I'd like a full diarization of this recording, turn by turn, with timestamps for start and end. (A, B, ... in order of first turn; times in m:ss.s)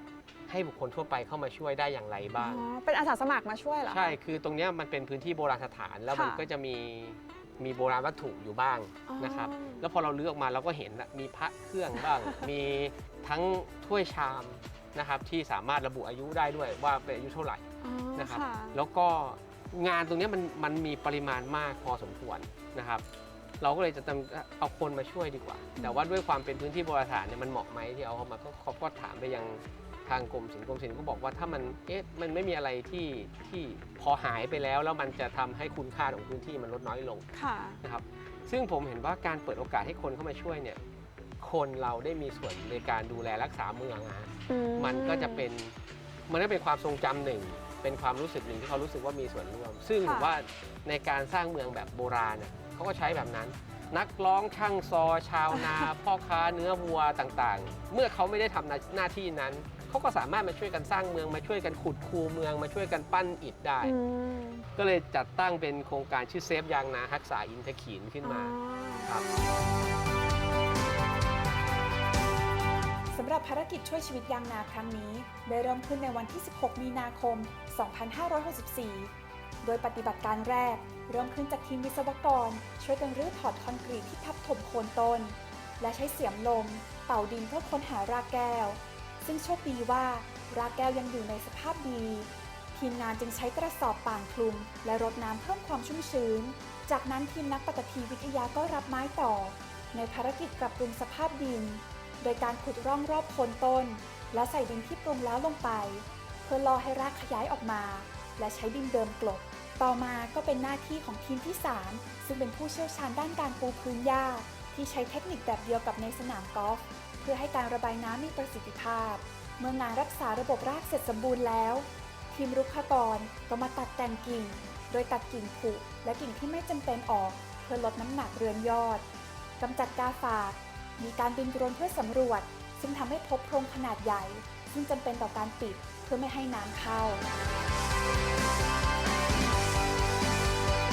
0:00.5-0:02.6 A
0:02.4-0:04.1 B
0:03.8-0:23.0 A
0:06.1-0:06.4 B
0:09.1-0:09.8 B
0:17.8-0:18.8 B
0:23.6-0:37.2 A
0:37.3-0:37.8 B
0:37.8-0:40.8 A
0:41.4-0:45.8 A
0:44.5-0:45.4 B
0:46.3-1:04.0 A
0:50.0-0:50.3 B
1:03.8-1:04.6 B
1:04.8-1:09.3 A
1:08.2-1:09.1 B
1:13.1-1:19.1 C
1:19.6-2:09.0 C
2:09.6-2:17.2 C